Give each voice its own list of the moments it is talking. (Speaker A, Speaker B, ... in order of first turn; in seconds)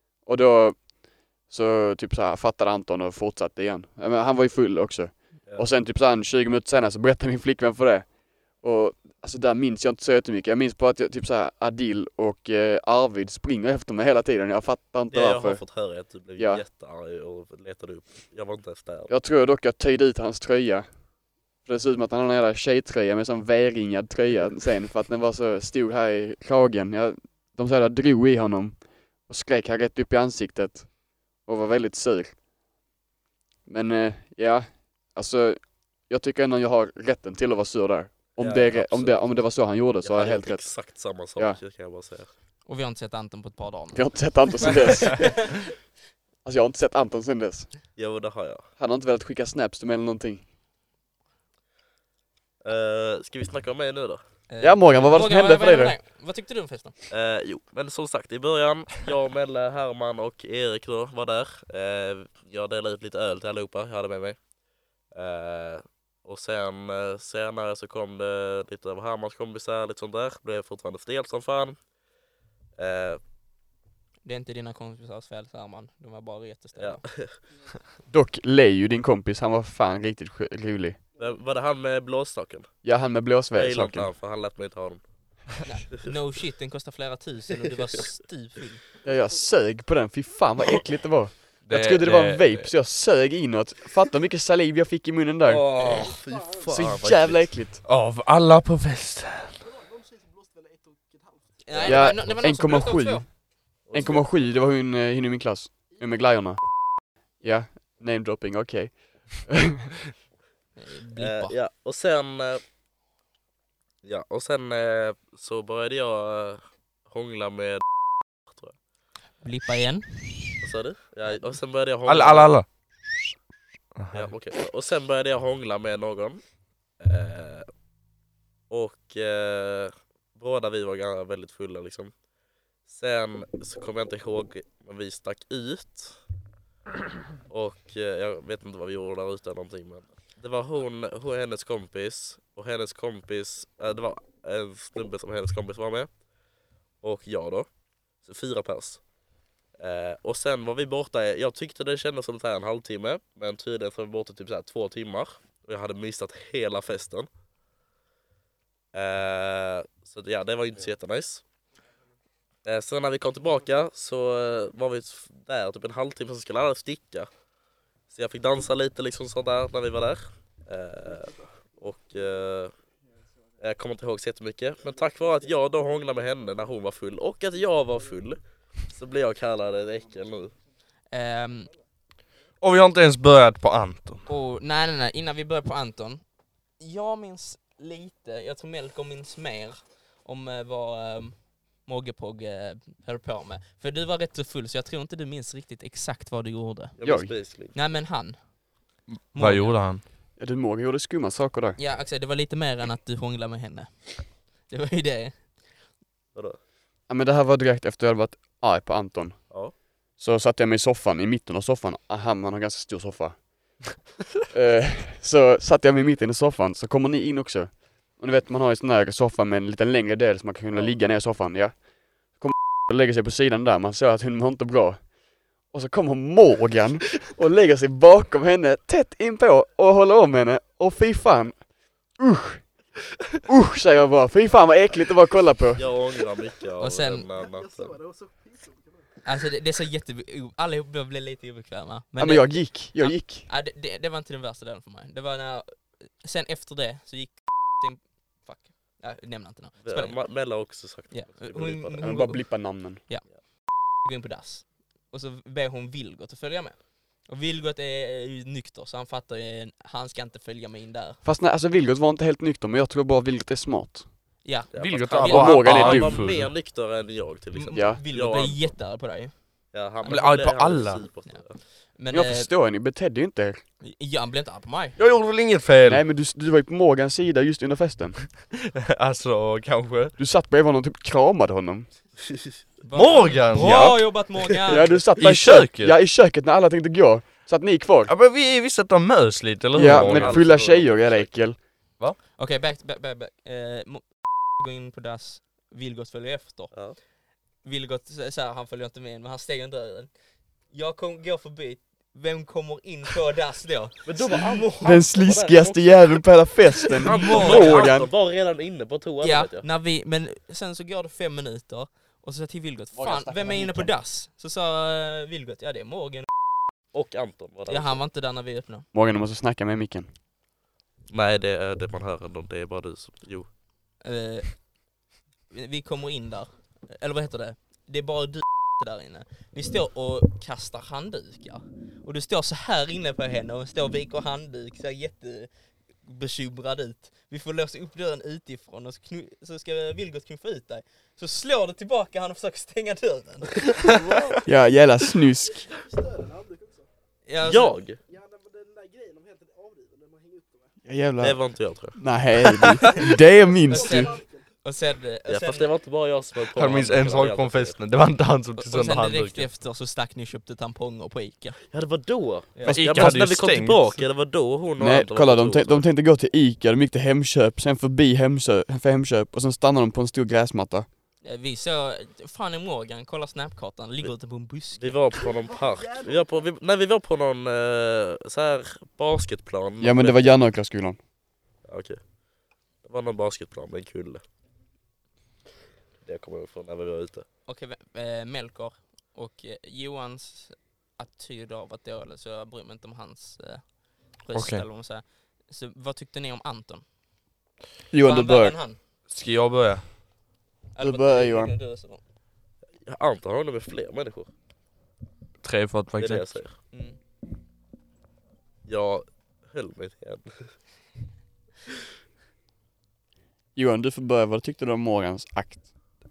Speaker A: 0.2-15.6, 16.4-16.6, 19.1-20.9, 21.6-32.4, 33.7-40.8, 43.9-45.6, 46.4-47.7, 48.8-50.4, 54.6-55.9, 78.1-81.0, 82.8-84.1, 89.0-95.8, 96.7-97.8, 101.8-103.3, 103.9-106.7, 107.4-109.9, 197.0-197.3, 200.3-201.8, 207.1-209.6, 210.2-232.9, 233.4-235.9, 242.2-243.5, 252.0-253.0, 261.2-264.1, 265.3-266.1, 267.7-268.0, 272.1-273.6, 275.8-278.3, 280.2-281.9, 284.7-288.1, 289.7-291.6, 304.8-308.1, 312.9-313.9, 318.9-320.1, 344.4-345.7, 350.8-351.4, 351.9-354.2, 362.7-363.1, 364.8-370.9, 379.8-381.0, 397.9-398.6, 400.8-401.5, 413.5-415.6
Speaker B: 15.1-19.1, 38.4-42.3, 47.9-48.6, 52.6-54.2, 57.1-64.4, 65.1-71.8, 72.8-73.2, 76.8-77.4, 81.2-82.7, 83.5-85.0, 95.5-97.5, 101.7-102.1, 103.8-104.3, 111.2-112.6, 114.0-117.8, 118.4-118.7, 120.6-122.5, 124.1-126.4, 127.0-127.7, 128.7-132.1, 132.8-136.2, 137.5-146.1, 147.0-149.0, 149.8-157.3, 158.9-161.4, 162.6-167.3, 168.1-172.7, 173.6-180.6, 197.0-197.7, 235.7-238.0, 249.8-252.1, 264.7-268.7, 269.7-271.6, 289.8-291.3, 296.7-297.0, 304.1-309.6, 316.9-318.0, 321.1-323.5, 347.4-348.0, 351.2-351.9, 355.3-357.8, 361.7-365.9, 374.8-380.3, 381.6-382.1, 382.8-384.2, 386.0-387.2, 402.9-404.3, 406.0-406.6, 408.7-410.5
Speaker C: 42.6-45.6, 54.5-56.9, 74.2-77.0, 85.6-88.8, 101.6-103.2, 110.8-111.5, 119.4-120.6, 181.1-181.7, 184.3-186.2, 186.8-196.9, 197.7-198.6, 199.3-199.8, 201.8-205.7, 236.8-237.3, 239.2-250.5, 251.1-261.2, 264.4-266.1, 267.5-269.7, 271.3-272.5, 273.8-275.0, 282.8-285.0, 292.4-297.0, 297.6-300.1, 300.7-304.7, 307.0-307.9, 309.2-316.3, 317.7-318.9, 324.0-324.8, 325.5-335.5, 336.0-343.8, 347.2-347.8, 353.7-355.7, 358.6-361.6, 362.5-362.8, 371.2-375.0, 387.4-396.9, 398.0-398.8, 400.7-402.0, 406.7-407.0
Speaker D: 91.7-92.7, 97.8-99.6, 122.0-122.7, 123.9-124.3, 182.6-184.3, 199.1-200.0, 264.8-266.5, 270.0-271.0, 275.0-276.0, 278.9-280.1, 282.9-284.6, 285.1-285.9, 288.1-290.4, 356.5-359.5, 362.7-364.0, 394.3-394.6, 399.1-399.9, 405.4-406.4
Speaker E: 99.8-101.4, 237.4-239.0, 343.9-344.4, 345.6-346.9, 348.1-350.7, 353.6-354.4